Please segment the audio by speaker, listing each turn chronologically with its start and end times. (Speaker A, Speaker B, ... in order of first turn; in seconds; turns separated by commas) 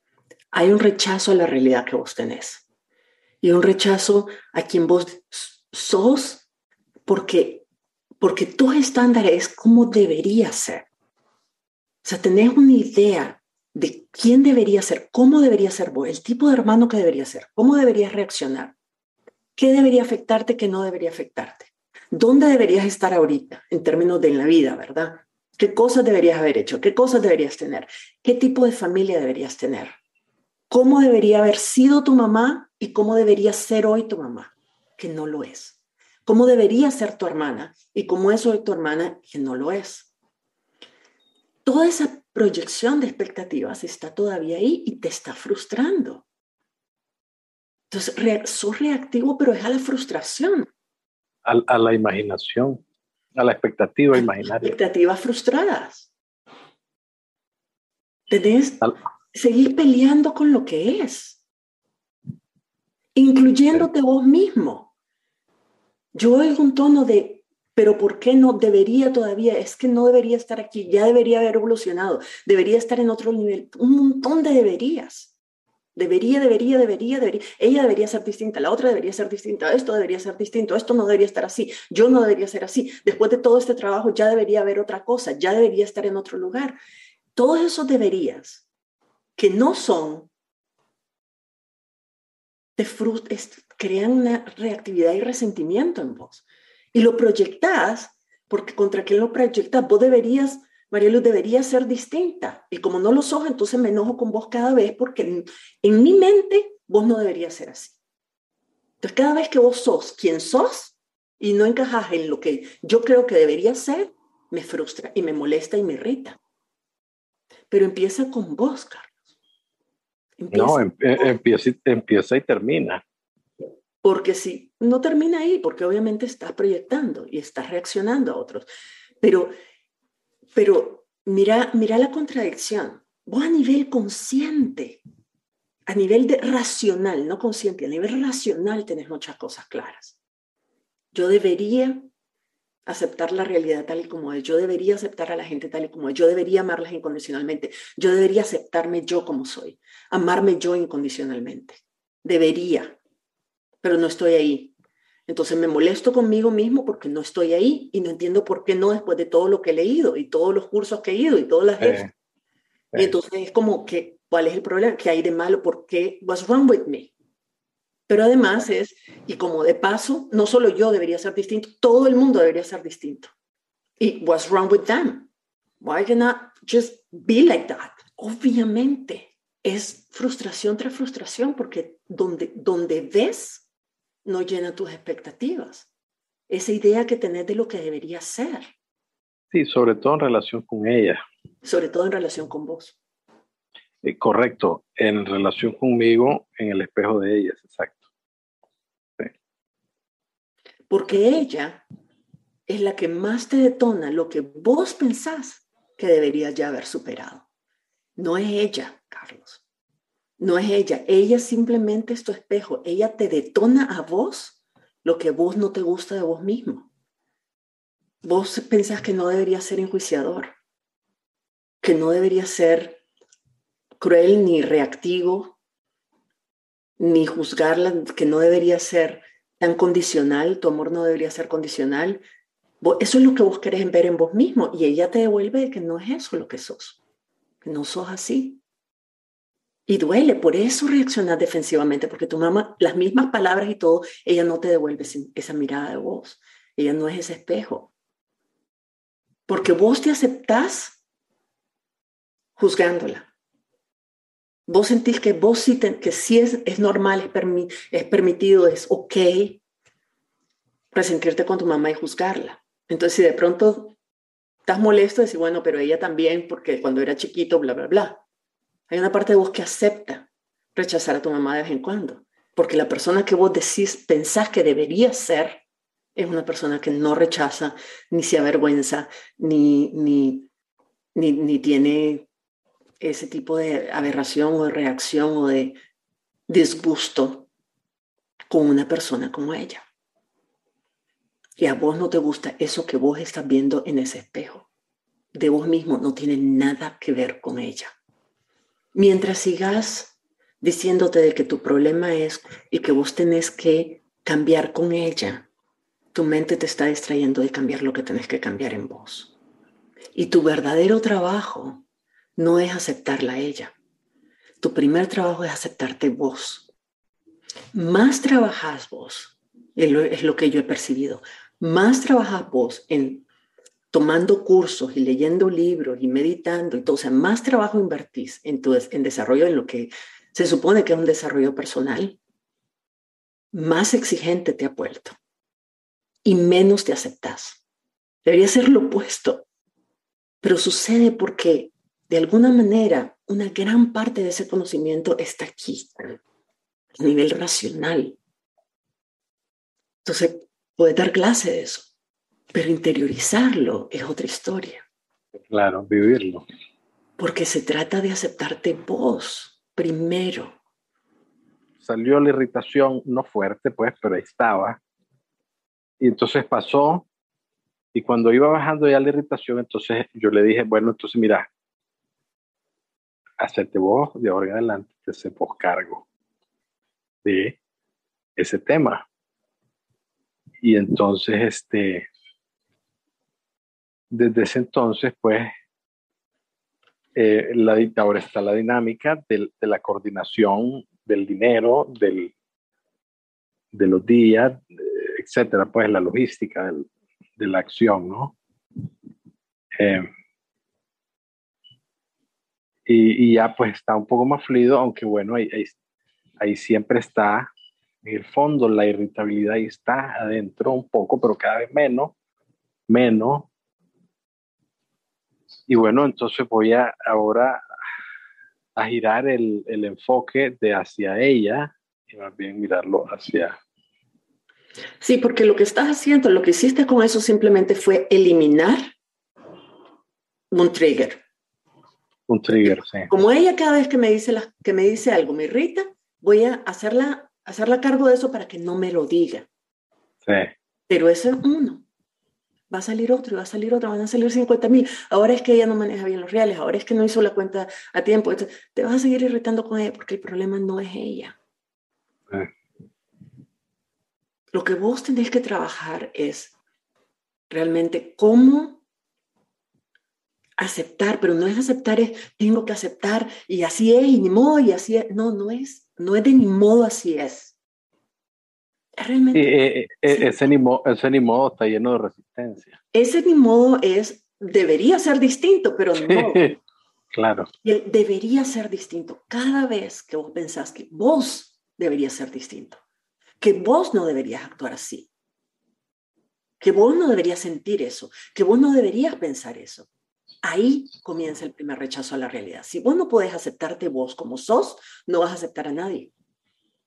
Speaker A: 0.5-2.6, Speaker A: 3.4-6.4, Speaker A: 7.0-7.7, Speaker A: 8.2-10.9, Speaker A: 12.0-18.7, Speaker A: 19.6-29.9, Speaker A: 30.7-40.1, Speaker A: 41.6-46.2, Speaker A: 47.9-50.7, Speaker B: 51.4-52.8, Speaker B: 53.3-54.8, Speaker A: 54.1-56.1, Speaker A: 58.3-61.4, Speaker A: 63.1-64.9, Speaker A: 66.1-75.3, Speaker A: 75.9-86.8, Speaker A: 87.3-88.6, Speaker A: 89.4-90.3, Speaker A: 92.8-108.0, Speaker A: 109.0-116.4, Speaker A: 117.7-119.1, Speaker A: 120.4-121.3, Speaker B: 120.5-123.0, Speaker A: 124.0-128.7, Speaker A: 129.2-129.5, Speaker A: 130.5-135.0, Speaker A: 135.9-140.2, Speaker A: 141.1-142.0, Speaker A: 142.8-153.0, Speaker A: 153.8-154.7, Speaker A: 155.3-162.1, Speaker B: 161.8-162.1, Speaker A: 162.9-167.1, Speaker A: 168.1-173.3, Speaker A: 174.0-175.3, Speaker A: 175.8-183.6, Speaker A: 184.2-185.9, Speaker A: 186.5-188.7, Speaker B: 189.5-191.2, Speaker A: 191.6-193.0, Speaker B: 194.0-198.0, Speaker A: 200.9-201.8, Speaker A: 202.7-207.4, Speaker A: 208.2-209.6, Speaker A: 210.4-216.9, Speaker A: 218.2-220.5, Speaker A: 221.8-223.0, Speaker A: 224.0-225.6, Speaker A: 227.0-232.2, Speaker A: 232.8-237.0, Speaker A: 237.6-238.6, Speaker A: 239.9-247.9, Speaker A: 249.5-251.0, Speaker A: 252.6-253.3, Speaker A: 254.7-259.6, Speaker A: 260.9-263.9, Speaker A: 264.6-268.2, Speaker A: 268.9-275.6, Speaker A: 276.1-280.5, Speaker A: 281.1-282.2, Speaker A: 283.0-285.8, Speaker A: 286.5-287.5, Speaker A: 288.5-289.8, Speaker A: 291.6-294.7, Speaker A: 295.3-297.9, Speaker A: 298.9-305.5, Speaker A: 306.1-309.3, Speaker A: 310.1-311.8, Speaker A: 312.4-313.7, Speaker A: 314.6-316.7, Speaker A: 317.7-323.2, Speaker A: 323.9-332.2, Speaker A: 333.5-335.2, Speaker A: 336.2-337.6, Speaker A: 338.2-339.4, Speaker A: 340.4-346.2, Speaker A: 347.0-348.2, Speaker A: 350.0-351.9, Speaker A: 352.5-354.8, Speaker B: 355.5-356.4, Speaker A: 357.2-360.6, Speaker B: 361.8-364.8, Speaker B: 366.0-367.1, Speaker B: 367.9-371.5, Speaker B: 373.4-376.0, Speaker B: 377.2-377.6, Speaker B: 378.4-379.0, Speaker B: 380.6-382.1, Speaker B: 384.1-385.5, Speaker B: 387.1-392.3, Speaker B: 393.7-398.4, Speaker B: 399.8-400.1, Speaker B: 402.9-405.8, Speaker B: 406.4-407.5, Speaker B: 408.0-412.1, Speaker B: 412.9-413.5, Speaker B: 415.7-417.6, Speaker B: 418.8-423.5, Speaker A: 425.0-428.9, Speaker A: 430.5-431.2, Speaker B: 432.3-433.1, Speaker A: 432.6-439.5, Speaker B: 440.2-440.5, Speaker A: 440.9-441.8, Speaker A: 442.7-451.4, Speaker A: 454.5-456.5, Speaker A: 457.5-458.8, Speaker A: 460.6-467.5, Speaker A: 469.0-469.5, Speaker B: 469.3-472.8, Speaker A: 470.1-470.4, Speaker A: 472.9-476.5, Speaker B: 476.0-476.6, Speaker B: 477.1-477.5, Speaker A: 477.6-482.8, Speaker A: 483.4-485.1, Speaker A: 486.6-489.9, Speaker A: 490.4-496.1